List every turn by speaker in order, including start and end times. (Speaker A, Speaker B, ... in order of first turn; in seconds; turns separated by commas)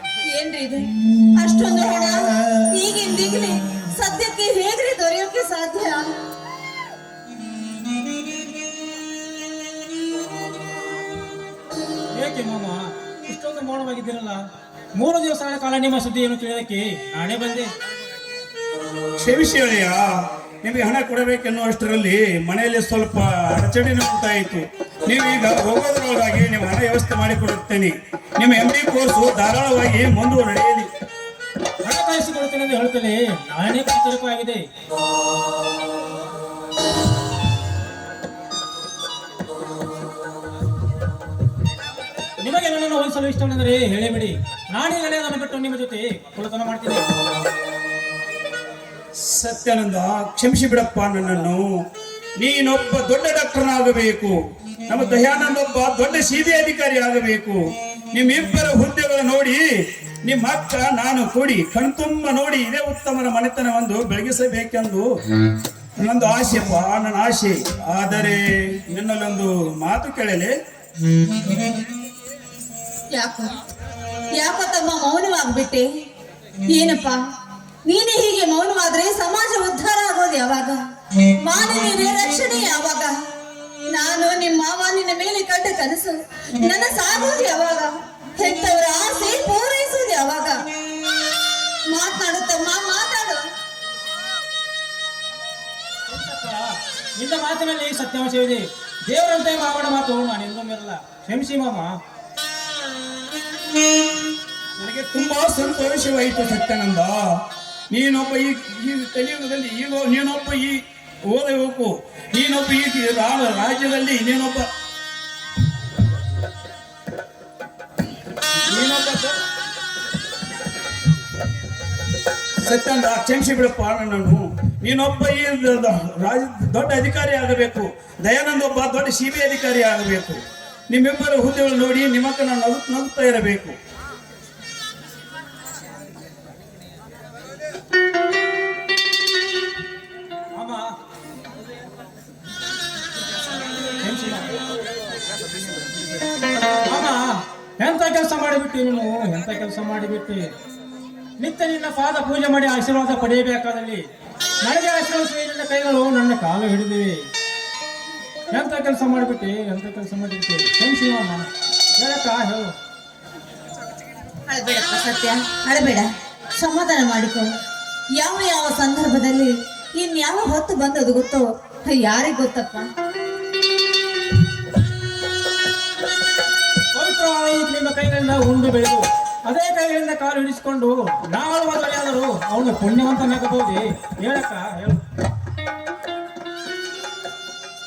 Speaker A: 0.3-6.0, Speaker B: 12.1-17.7, Speaker C: 19.2-20.1, Speaker C: 20.6-30.9, Speaker B: 31.8-34.6, Speaker B: 42.4-47.1, Speaker C: 49.2-51.8, Speaker C: 52.4-54.4, Speaker C: 54.9-57.6, Speaker C: 58.1-59.6, Speaker C: 60.2-65.0, Speaker C: 66.0-70.5, Speaker A: 73.1-73.6, Speaker A: 74.3-75.8, Speaker A: 76.7-77.2, Speaker A: 77.8-80.8, Speaker A: 81.4-83.1, Speaker A: 83.9-90.7, Speaker A: 91.9-93.4, Speaker B: 96.1-101.9, Speaker C: 104.8-114.7, Speaker C: 118.7-119.4, Speaker C: 122.6-133.8, Speaker B: 140.5-140.9, Speaker B: 144.0-144.6, Speaker B: 146.8-150.5, Speaker B: 151.4-154.1, Speaker B: 154.6-157.3, Speaker B: 158.5-162.7, Speaker A: 164.4-167.5, Speaker A: 168.2-172.9, Speaker B: 176.9-185.0